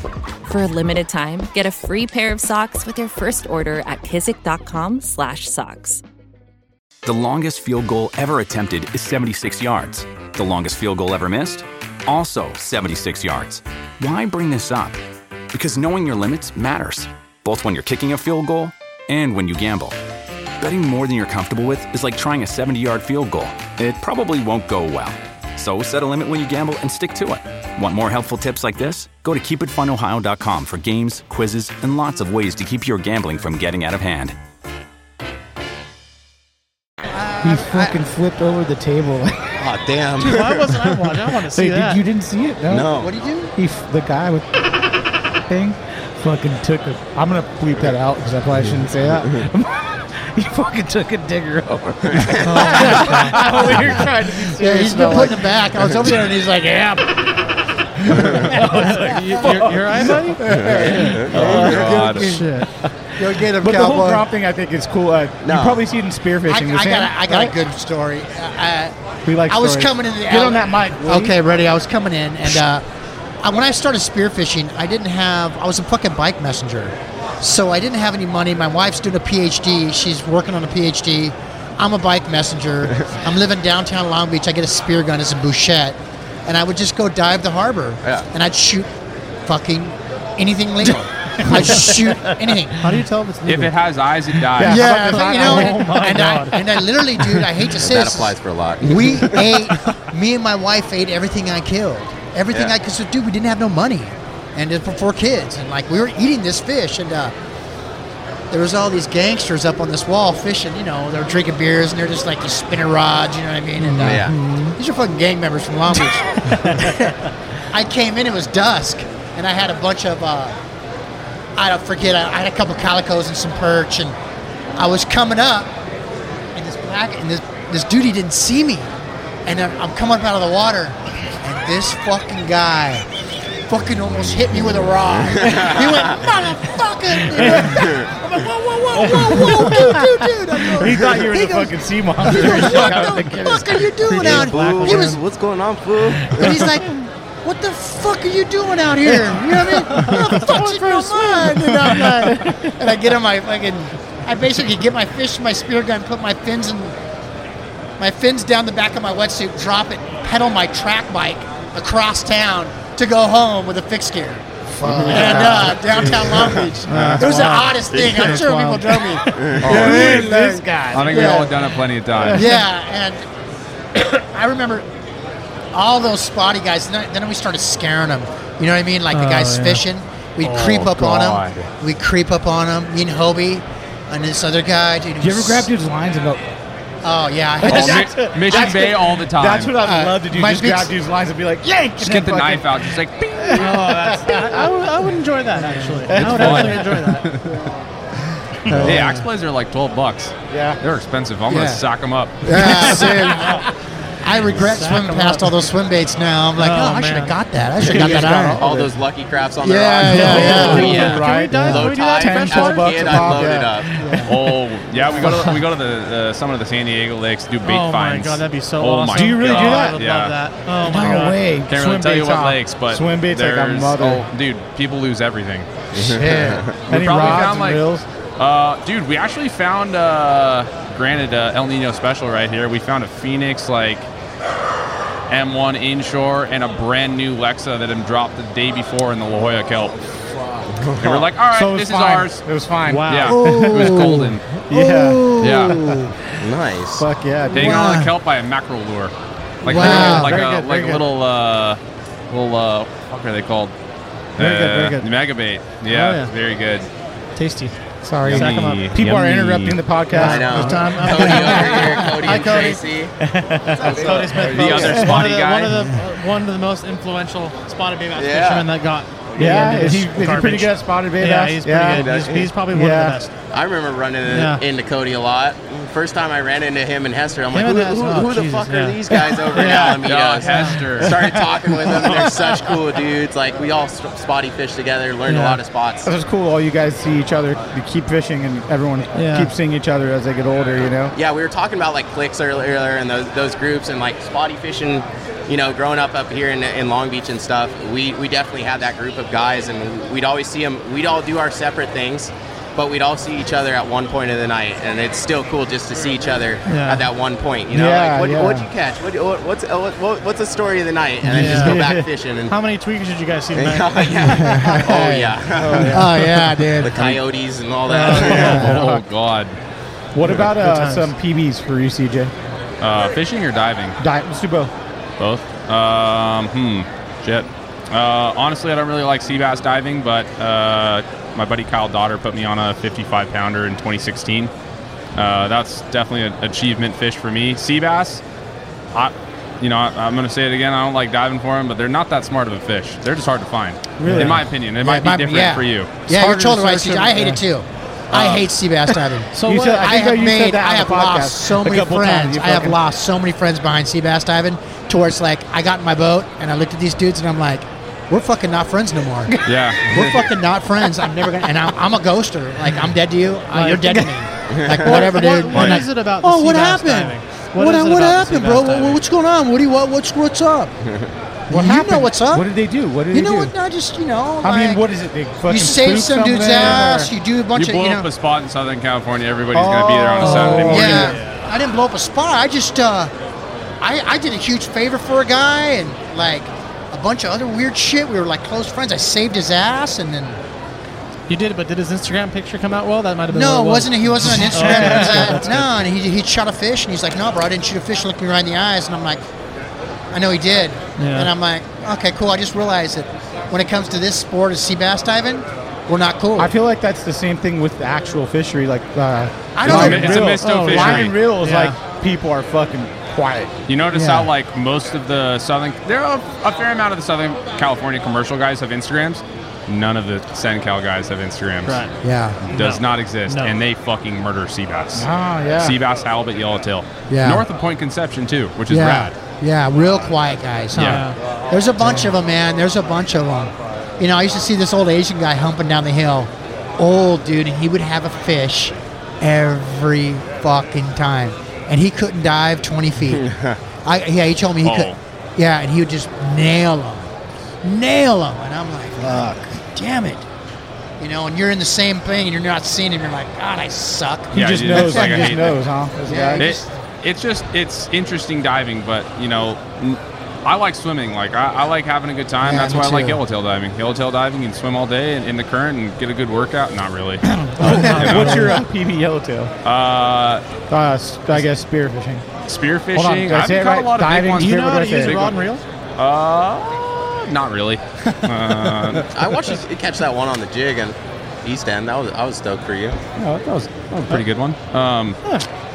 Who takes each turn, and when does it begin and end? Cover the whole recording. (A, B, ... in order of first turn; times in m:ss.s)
0:00.4-0:06.0 A
0:07.0-0:15.0 B
0:15.5-0:19.9 B
0:20.6-0:34.4 B
0:37.1-0:37.9 C
0:37.4-0:39.5 D
0:39.6-0:40.7 E
0:40.2-0:42.0 F
0:41.5-0:42.9 D
0:42.7-0:43.1 E
0:43.0-0:43.5 C
0:43.5-0:44.5 D
0:45.5-0:55.4 D
0:52.1-0:52.8 E
0:52.4-0:53.8 F
0:54.5-0:57.3 C
0:58.0-0:59.8 D
0:58.7-1:01.2 F
1:00.4-1:02.5 C
1:00.4-1:01.9 D
1:00.5-1:02.1 E
1:01.4-1:02.4 G
1:02.2-1:02.7 F
1:02.8-1:07.5 D
1:03.2-1:04.2 C
1:05.4-1:05.8 E
1:06.5-1:08.9 C
1:09.2-1:11.3 D
1:09.5-1:12.8 C
1:13.4-1:28.9 C
1:29.4-1:32.8 C
1:31.3-1:32.3 D
1:32.8-1:33.7 F
1:33.4-1:35.1 G
1:34.6-1:36.3 D
1:34.6-1:47.3 C
1:34.7-1:36.6 F
1:37.7-1:39.7 E
1:48.5-1:57.1 C
1:54.0-1:54.4 E
1:54.0-1:54.7 F
1:56.5-1:56.9 D
1:57.7-2:00.6 C
2:01.6-2:04.2 C
2:04.8-2:05.7 C
2:06.5-2:08.9 C
2:09.4-2:13.0 C
2:13.7-2:25.2 C
2:15.4-2:16.1 E
2:17.3-2:17.8 D
2:19.0-2:20.1 D
2:20.7-2:24.3 D
2:24.2-2:26.6 E
2:24.2-2:25.2 F
2:26.2-2:26.6 D
2:26.4-2:36.9 C
2:29.1-2:30.5 D
2:29.9-2:32.0 F
2:31.6-2:32.7 D
2:38.0-2:44.4 C
2:44.8-2:46.3 D
2:44.8-2:47.3 E
2:45.1-2:51.6 C
2:45.1-2:45.4 F
2:46.8-2:48.7 F
2:47.0-2:47.5 D
2:47.9-2:48.4 E
2:48.3-2:51.4 D
2:49.4-2:50.2 E
2:49.6-2:50.3 G
2:50.9-2:52.5 G
2:52.2-2:52.4 D
2:52.3-2:53.2 C
2:54.0-2:54.8 C
2:55.7-3:05.7 C
2:59.1-2:59.8 F
3:00.6-3:01.7 G
3:05.2-3:06.4 D
3:07.0-3:09.0 C
3:07.6-3:14.8 D
3:07.6-3:09.7 G
3:09.8-3:10.9 C
3:12.0-3:13.8 G
3:13.5-3:17.3 F
3:16.1-3:16.9 D
3:16.1-3:17.6 G
3:17.4-3:17.7 D
3:18.6-3:19.1 D
3:18.8-3:23.0 G
3:18.8-3:19.1 C
3:20.5-3:20.8 D
3:21.5-3:21.8 C
3:22.4-3:28.6 C
3:22.5-3:23.3 D
3:23.0-3:23.7 F
3:24.4-3:25.6 F
3:26.6-3:27.4 F
3:27.8-3:28.9 D
3:27.8-3:34.0 E
3:29.6-3:31.1 C
3:30.0-3:34.3 D
3:30.2-3:34.3 F
3:34.2-3:40.4 G
3:35.2-3:35.5 D
3:37.6-3:41.4 F
3:39.1-3:40.0 D
3:40.8-3:44.3 D
3:41.7-3:45.7 G
3:45.9-3:46.7 E
3:46.0-3:48.0 D
3:46.9-3:47.8 G
3:48.4-3:54.1 G
3:55.3-3:59.9 G
4:00.2-4:00.7 D
4:00.7-4:01.3 E
4:01.0-4:02.4 G
4:01.5-4:05.9 D
4:02.8-4:03.4 F
4:03.0-4:04.4 G
4:03.3-4:06.1 C
4:05.4-4:05.8 G
4:06.4-4:07.1 E
4:07.0-4:07.8 D
4:07.5-4:08.1 C
4:07.5-4:13.7 G
4:09.6-4:11.0 D
4:09.6-4:10.4 C
4:09.8-4:10.3 F
4:14.4-4:16.9 G
4:14.4-4:15.0 D
4:15.9-4:16.3 F
4:17.4-4:18.9 F
4:18.2-4:22.0 D
4:18.2-4:19.8 G
4:20.1-4:22.8 F
4:20.1-4:23.2 E
4:20.5-4:21.5 C
4:23.2-4:24.1 D
4:23.7-4:25.3 E
4:23.8-4:33.3 F
4:24.4-4:25.8 G
4:28.1-4:28.7 E
4:29.4-4:32.0 D
4:31.9-4:32.5 E
4:32.7-4:33.2 D
4:33.5-4:46.1 E
4:34.2-4:34.6 F
4:37.5-4:40.9 F
4:40.0-4:41.4 G
4:45.3-4:45.6 F
4:46.0-4:51.1 D
4:49.1-4:49.5 F
4:50.8-5:12.5 E
5:06.6-5:07.1 F
5:07.7-5:08.7 D
5:11.2-5:12.0 D
5:11.4-5:11.9 F
5:12.5-5:14.4 F
5:13.5-5:16.2 E
5:14.3-5:15.0 C
5:14.5-5:16.1 D
5:15.9-5:17.2 C
5:16.8-5:18.6 E
5:17.8-5:18.6 F
5:18.3-5:19.0 D
5:18.6-5:19.6 G
5:20.1-5:22.3 D
5:20.5-5:21.1 F
5:22.8-5:24.0 G
5:24.0-5:24.7 D
5:25.2-5:34.5 G
5:35.1-5:38.2 G
5:38.9-5:45.9 G
5:44.0-5:44.4 D
5:44.0-5:44.3 F
5:44.1-6:10.7 C
5:46.1-5:47.4 D
5:46.2-5:46.9 F
5:48.1-5:48.5 G
5:49.3-5:49.9 F
5:49.4-5:52.8 D
5:59.4-5:59.8 G
6:03.5-6:04.1 D
6:04.5-6:05.2 E
6:04.8-6:09.0 F
6:05.5-6:05.8 G
6:10.8-6:11.1 E
6:11.5-6:12.5 C
6:11.5-6:13.5 D
6:13.1-6:14.8 C
6:14.4-6:17.1 D
6:15.4-6:18.1 C
6:17.5-6:21.1 G
6:19.5-6:21.2 D
6:20.2-6:23.1 C
6:20.2-6:21.0 F
6:23.8-6:30.4 C
6:31.3-6:35.8 F
6:33.3-6:39.2 C
6:34.2-6:35.4 D
6:40.1-6:46.5 C
6:41.0-6:41.3 F
6:46.4-6:53.6 D
6:49.5-6:50.3 C
6:49.6-6:51.2 G
6:49.7-6:51.8 F
6:53.7-7:01.9 G
6:53.9-6:54.3 C
7:01.7-7:03.5 F
7:02.0-7:02.5 C
7:02.5-7:09.1 G
7:04.9-7:05.8 D
7:07.1-7:07.4 C
7:08.7-7:23.2 C
7:10.7-7:11.0 G
7:10.8-7:11.2 F
7:23.1-7:23.6 E
7:23.8-7:27.1 C
7:24.6-7:25.0 G
7:27.6-7:30.2 C
7:29.0-7:29.4 D
7:31.0-7:35.5 C
7:34.3-7:35.6 G
7:34.3-7:36.4 D
7:36.0-7:36.7 C
7:36.4-7:47.2 G
7:42.4-7:43.2 C
7:47.3-7:49.5 D
7:47.7-7:48.6 F
7:47.8-7:48.4 G
7:49.6-7:50.4 G
7:50.7-7:52.2 D
7:52.4-7:55.4 G
7:52.9-7:55.2 D
7:54.3-7:55.6 F
7:56.0-7:59.0 G
7:59.1-8:03.0 E
8:03.2-8:05.2 G
8:03.2-8:03.6 D